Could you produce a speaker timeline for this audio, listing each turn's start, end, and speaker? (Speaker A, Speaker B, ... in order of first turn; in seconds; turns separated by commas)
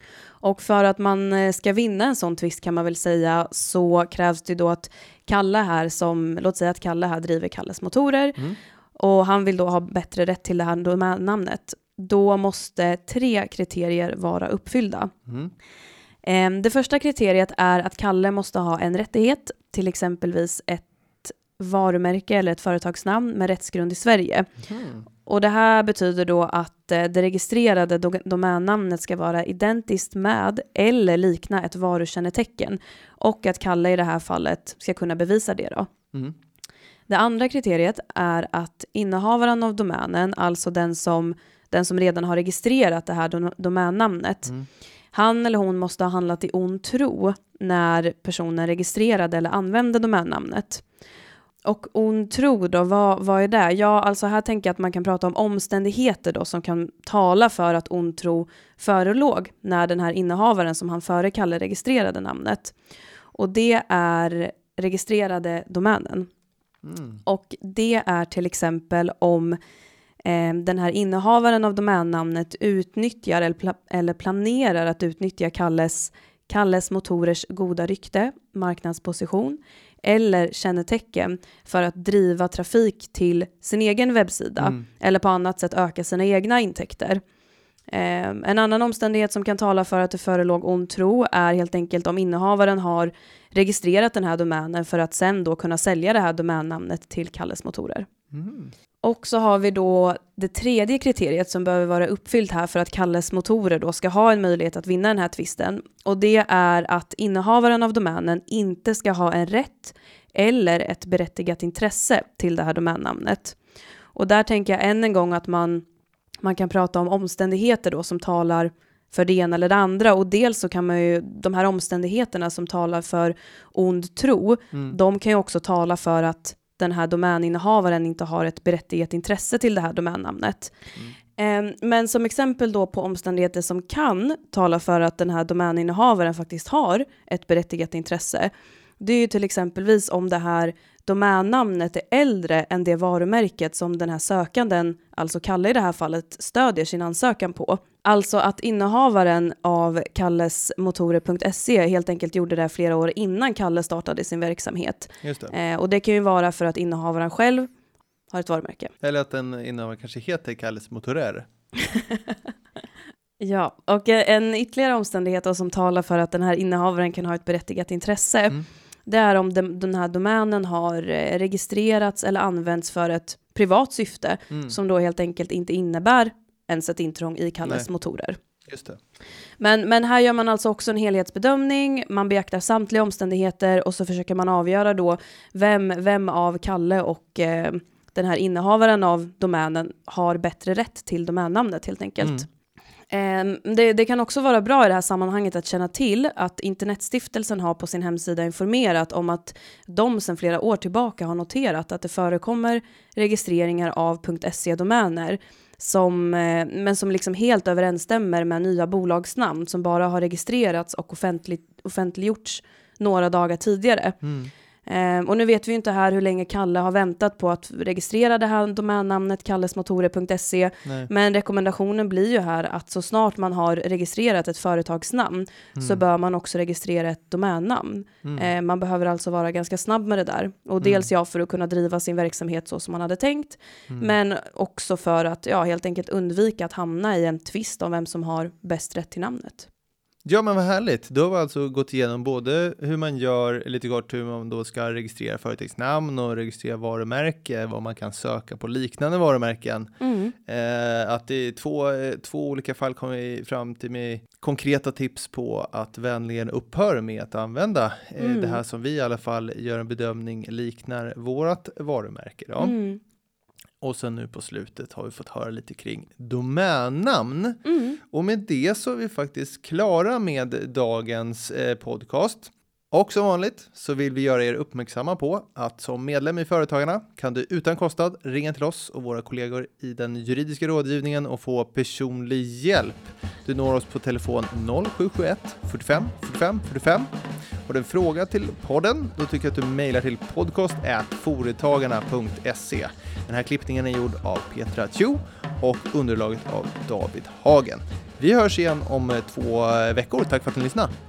Speaker A: 0.4-8.4, Speaker A: 8.9-15.1, Speaker B: 15.3-15.5, Speaker A: 16.2-24.5, Speaker B: 24.7-25.0, Speaker A: 25.2-35.9, Speaker A: 37.1-44.5, Speaker A: 45.1-50.8, Speaker A: 51.6-62.7, Speaker A: 63.3-66.3, Speaker B: 66.8-67.2, Speaker A: 67.2-69.6, Speaker A: 70.2-87.2, Speaker A: 87.9-98.1, Speaker B: 98.3-98.7, Speaker A: 99.0-113.6, Speaker A: 114.1-115.8, Speaker A: 116.4-130.7, Speaker A: 131.3-157.7, Speaker B: 155.2-155.5, Speaker A: 158.3-158.9, Speaker B: 159.0-161.5, Speaker A: 161.9-162.2, Speaker A: 163.4-178.4, Speaker B: 178.6-179.0, Speaker A: 179.6-192.5, Speaker A: 193.1-214.2, Speaker B: 214.2-214.5, Speaker A: 214.8-239.7, Speaker B: 220.8-221.1, Speaker B: 225.8-226.0, Speaker B: 230.8-231.1, Speaker B: 240.2-262.8, Speaker A: 250.0-250.3, Speaker A: 258.2-258.6, Speaker A: 262.6-263.0, Speaker B: 263.8-287.1, Speaker A: 267.6-268.0, Speaker B: 287.6-300.9